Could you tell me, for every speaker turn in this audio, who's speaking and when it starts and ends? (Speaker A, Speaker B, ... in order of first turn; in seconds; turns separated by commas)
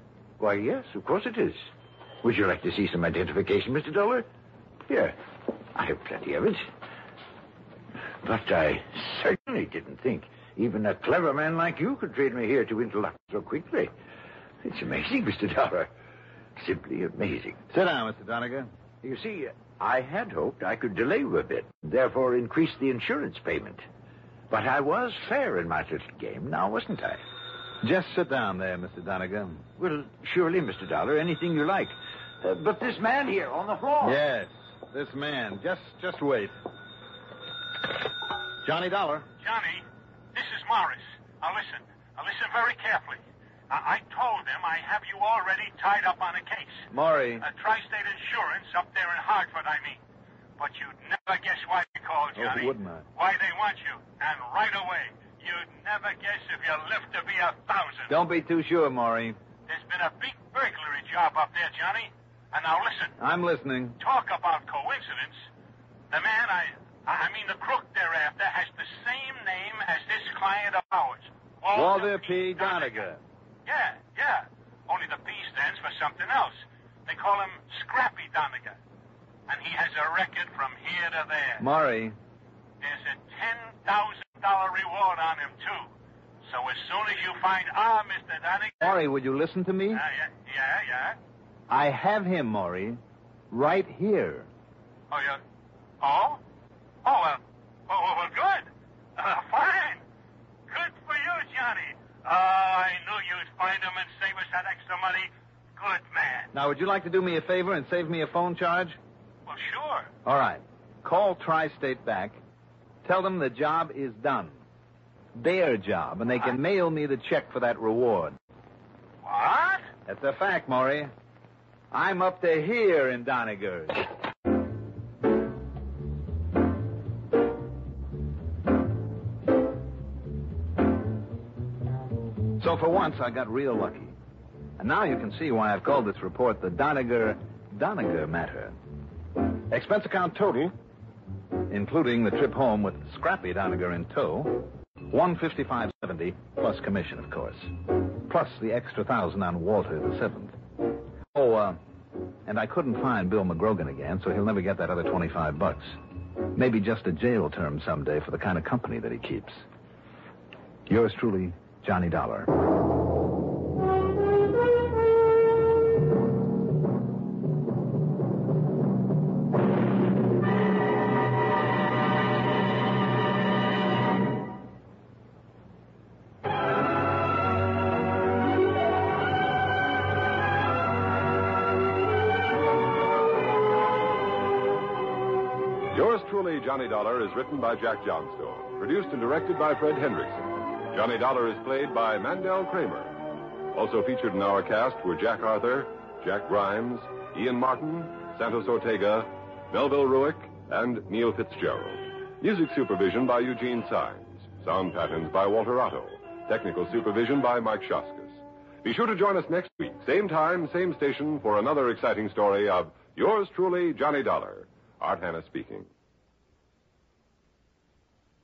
Speaker A: 0.4-1.7, Speaker A: 2.2-4.3, Speaker A: 4.9-5.2, Speaker A: 5.8-6.7, Speaker A: 8.2-13.9, Speaker A: 14.6-15.9, Speaker A: 16.6-17.6, Speaker B: 17.7-18.7, Speaker A: 19.0-23.8, Speaker A: 24.5-27.2, Speaker B: 27.8-29.6, Speaker A: 29.8-34.1, Speaker B: 34.0-36.5, Speaker B: 38.6-39.3, Speaker C: 39.4-46.9, Speaker B: 46.9-47.5, Speaker C: 47.4-50.0, Speaker C: 50.6-58.1, Speaker B: 52.4-53.0, Speaker B: 58.1-59.4, Speaker C: 59.7-63.1, Speaker B: 63.2-64.0, Speaker C: 64.0-65.4, Speaker C: 66.1-73.0, Speaker B: 71.7-73.2, Speaker C: 73.7-78.8, Speaker C: 79.5-81.7, Speaker B: 81.6-82.2, Speaker C: 82.8-85.9, Speaker C: 86.4-89.0, Speaker B: 88.8-90.0, Speaker C: 89.9-91.2, Speaker B: 91.7-93.0, Speaker B: 93.5-94.5, Speaker C: 95.1-95.4, Speaker C: 96.0-96.4, Speaker C: 97.0-100.0, Speaker C: 100.7-106.5, Speaker B: 106.5-109.0, Speaker C: 109.5-110.1, Speaker B: 110.3-112.4, Speaker B: 113.0-114.6, Speaker B: 115.4-118.4, Speaker C: 119.2-119.8, Speaker B: 120.1-121.1, Speaker B: 121.9-124.1, Speaker B: 132.6-134.2, Speaker B: 134.8-138.8, Speaker B: 139.7-140.7, Speaker B: 141.7-150.6, Speaker B: 151.3-151.8, Speaker B: 152.5-156.0, Speaker B: 156.5-159.6, Speaker B: 160.9-162.5, Speaker D: 185.9-193.2, Speaker D: 193.7-215.9